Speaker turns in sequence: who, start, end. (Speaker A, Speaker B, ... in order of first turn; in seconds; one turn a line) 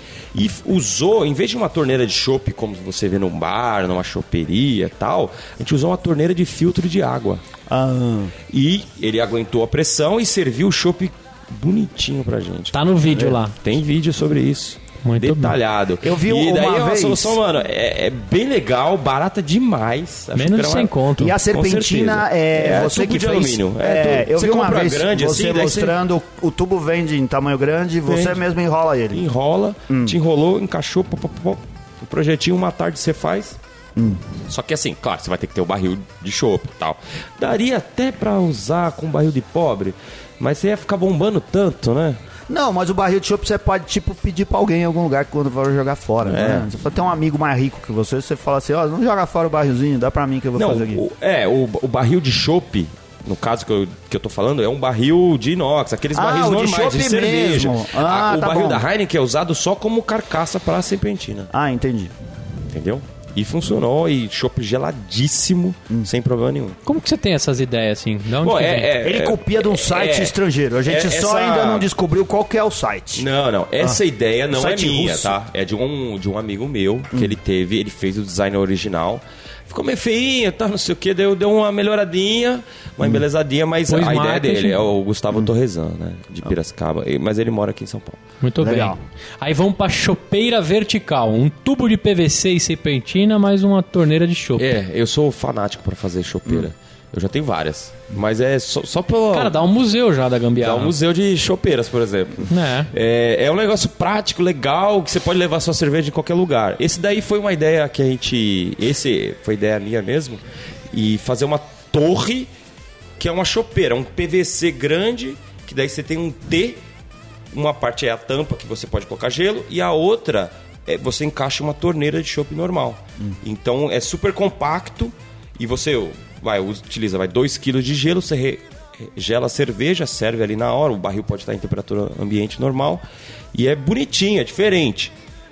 Speaker A: 0.3-7.4
Speaker B: 7.7-8.3
Speaker A: 8.5-12.8
Speaker C: 12.7-13.6
Speaker A: 13.6-21.0
Speaker C: 15.0-15.6
Speaker B: 16.0-17.4
Speaker C: 20.4-21.4
Speaker B: 21.2-29.2
Speaker A: 21.5-26.0
Speaker A: 28.1-28.4
Speaker A: 29.1-33.6
Speaker B: 29.9-30.1
Speaker B: 34.0-34.2
Speaker A: 34.5-42.2
Speaker B: 42.5-51.0
Speaker A: 46.2-46.7
Speaker A: 50.6-61.5
Speaker B: 56.1-58.8
Speaker B: 61.5-62.1
Speaker A: 62.7-66.8
Speaker C: 66.8-68.9
Speaker A: 68.4-71.9
Speaker B: 69.0-73.2
Speaker A: 73.2-88.2
Speaker B: 74.5-75.3
Speaker C: 83.9-84.8
Speaker C: 88.4-94.7
Speaker B: 88.6-89.0
Speaker A: 94.6-99.5
Speaker C: 99.3-101.0
Speaker A: 100.6-110.4
Speaker C: 102.5-102.9
Speaker A: 110.9-112.5
Speaker A: 113.2-116.8
Speaker A: 117.5-133.0
Speaker A: 133.5-135.1